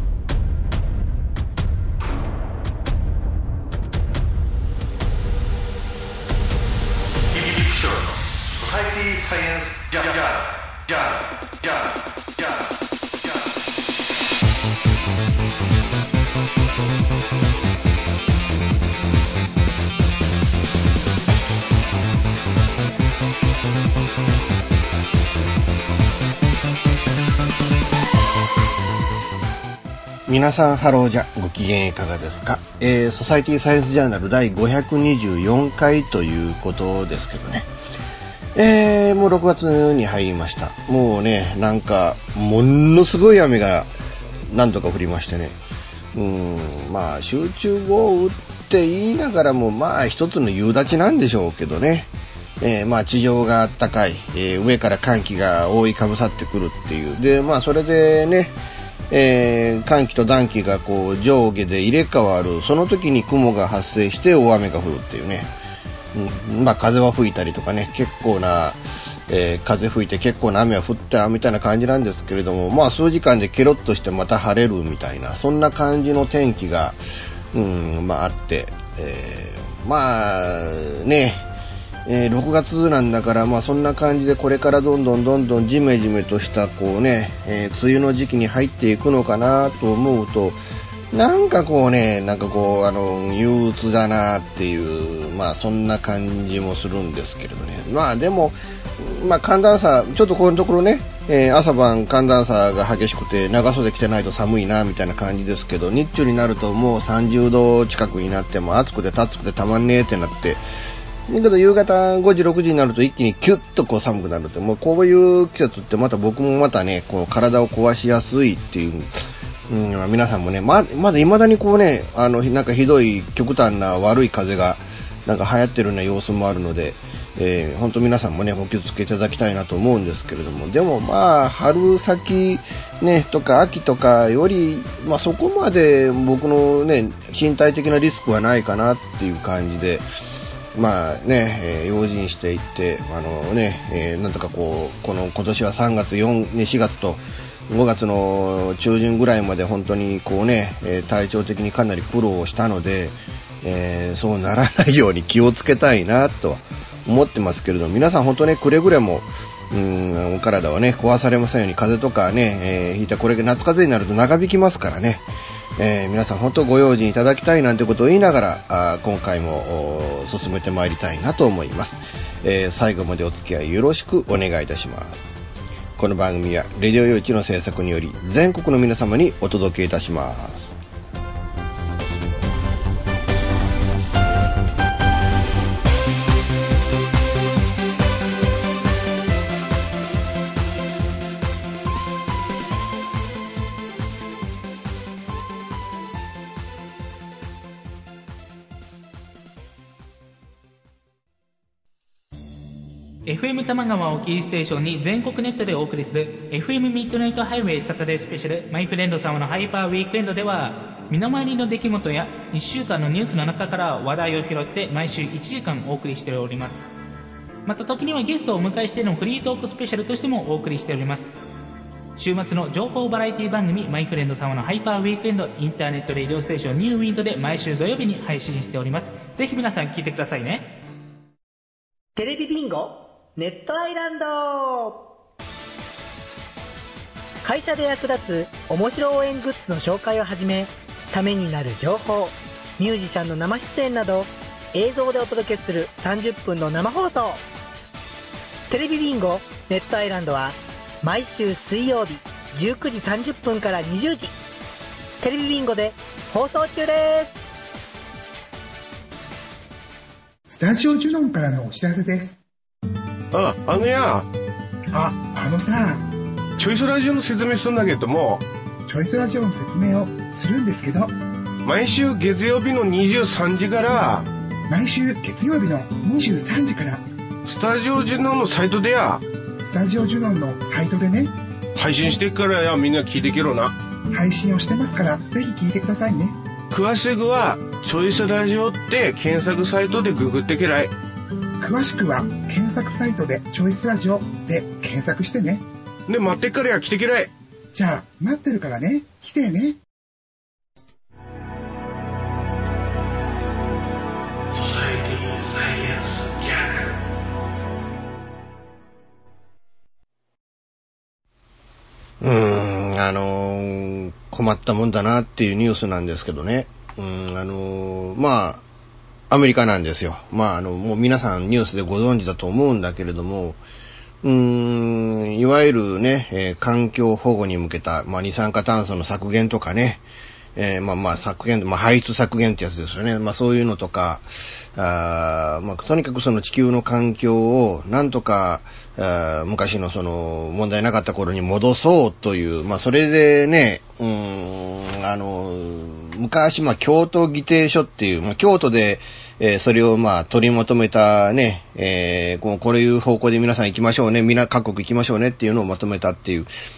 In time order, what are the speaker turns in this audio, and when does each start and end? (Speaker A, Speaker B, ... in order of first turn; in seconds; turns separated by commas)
Speaker A: 7.3-12.7, Speaker B: 30.3-37.7, Speaker B: 38.5-43.9, Speaker B: 44.5-45.5, Speaker B: 46.1-52.1, Speaker B: 52.6-58.5, Speaker B: 59.1-65.5, Speaker B: 66.1-77.0, Speaker B: 77.5-81.4, Speaker B: 82.0-90.6, Speaker B: 91.1-110.6, Speaker B: 111.3-140.0, Speaker B: 140.7-165.2, Speaker B: 165.8-175.2, Speaker B: 176.0-180.7, Speaker C: 203.2-216.8, Speaker C: 217.7-221.3, Speaker C: 222.2-230.7, Speaker D: 232.2-235.1, Speaker D: 237.4-247.4, Speaker D: 248.7-254.3, Speaker D: 255.2-257.4, Speaker E: 260.5-262.4, Speaker A: 263.3-264.3, Speaker E: 264.9-266.1, Speaker A: 266.6-268.4, Speaker E: 268.9-271.1, Speaker A: 271.6-274.3, Speaker E: 274.7-277.0, Speaker A: 277.4-279.2, Speaker E: 279.6-281.3, Speaker A: 281.7-283.8, Speaker E: 284.1-286.4, Speaker A: 286.7-290.9, Speaker E: 291.6-295.6, Speaker A: 296.1-297.3, Speaker E: 297.7-299.8, Speaker A: 304.5-306.9, Speaker B: 312.2-318.6, Speaker B: 319.3-323.6, Speaker B: 324.2-330.0, Speaker B: 330.6-356.5